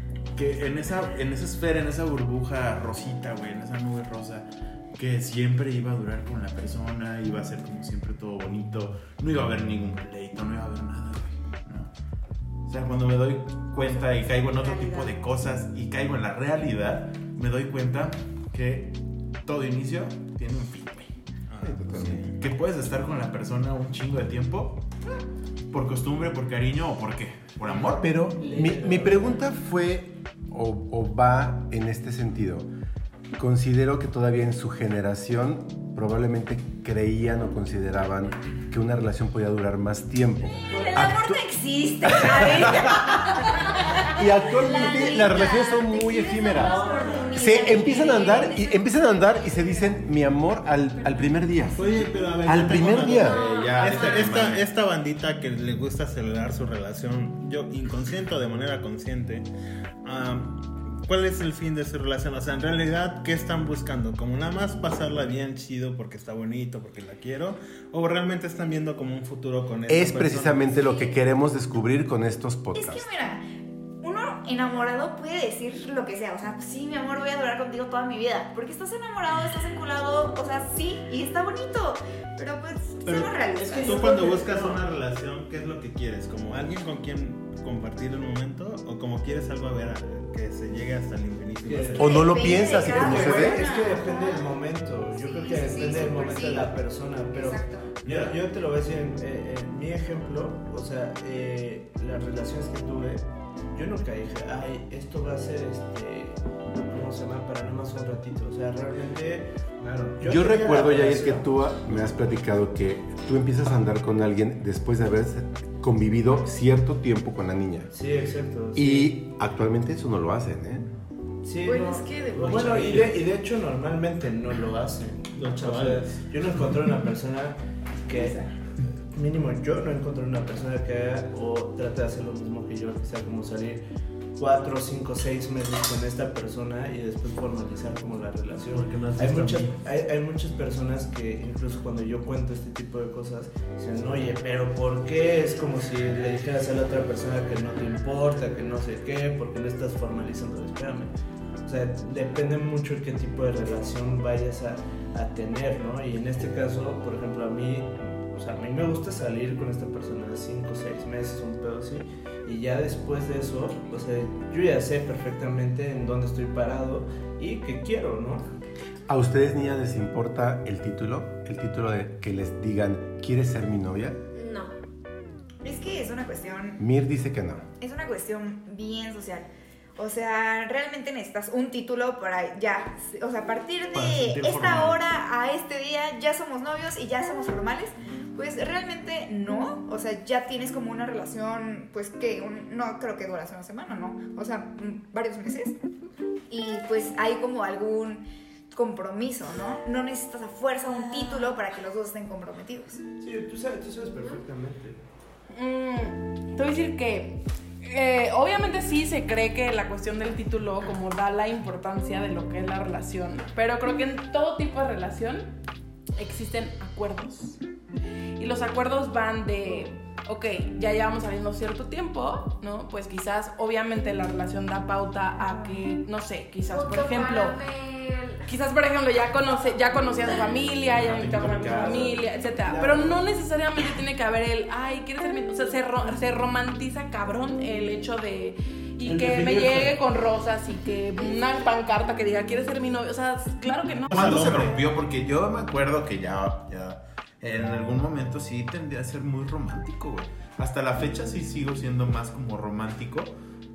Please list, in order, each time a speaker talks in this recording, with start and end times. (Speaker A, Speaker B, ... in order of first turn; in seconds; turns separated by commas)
Speaker A: 0.3-11.9, Speaker A: 12.7-21.1, Speaker B: 13.8-15.2, Speaker C: 21.5-22.5, Speaker D: 21.6-22.2, Speaker A: 21.9-24.8, Speaker A: 25.7-28.0, Speaker E: 27.6-29.4, Speaker D: 28.0-32.7, Speaker D: 33.3-41.4, Speaker F: 40.7-41.1, Speaker B: 40.7-44.1, Speaker D: 42.0-42.9, Speaker D: 44.1-46.8, Speaker F: 44.5-49.9, Speaker B: 44.6-48.6, Speaker E: 46.7-47.3, Speaker D: 47.3-53.4, Speaker F: 50.9-51.5, Speaker C: 51.7-59.5, Speaker F: 53.1-54.4, Speaker A: 53.2-54.6, Speaker C: 60.0-70.8, Speaker D: 69.9-73.1, Speaker B: 72.7-73.5, Speaker B: 74.0-84.5, Speaker C: 83.0-92.4, Speaker E: 83.6-84.8, Speaker E: 91.6-111.5, Speaker D: 92.0-93.6, Speaker B: 92.0-94.5, Speaker F: 95.2-96.6, Speaker B: 95.4-96.7, Speaker B: 97.3-97.9, Speaker C: 98.0-98.4, Speaker A: 109.8-110.2, Speaker D: 110.2-117.9, Speaker E: 117.9-119.2, Speaker D: 118.7-120.9, Speaker E: 121.4-128.5, Speaker F: 121.6-123.1, Speaker C: 125.3-126.2, Speaker E: 129.1-133.8, Speaker E: 134.4-151.1, Speaker C: 138.7-139.8, Speaker E: 151.6-168.5, Speaker D: 169.1-174.2, Speaker F: 174.3-174.7, Speaker B: 175.6-176.8, Speaker D: 176.8-177.6, Speaker B: 177.8-195.8, Speaker C: 183.9-185.0, Speaker B: 196.5-203.0, Speaker E: 203.2-205.0, Speaker F: 204.1-204.4, Speaker G: 205.5-215.6, Speaker G: 216.2-217.6, Speaker G: 218.4-227.6, Speaker F: 226.6-228.5, Speaker G: 228.4-244.8, Speaker A: 230.9-232.2, Speaker E: 231.5-233.0, Speaker C: 239.1-239.9, Speaker F: 241.2-241.6, Speaker A: 244.1-253.3, Speaker C: 244.1-244.8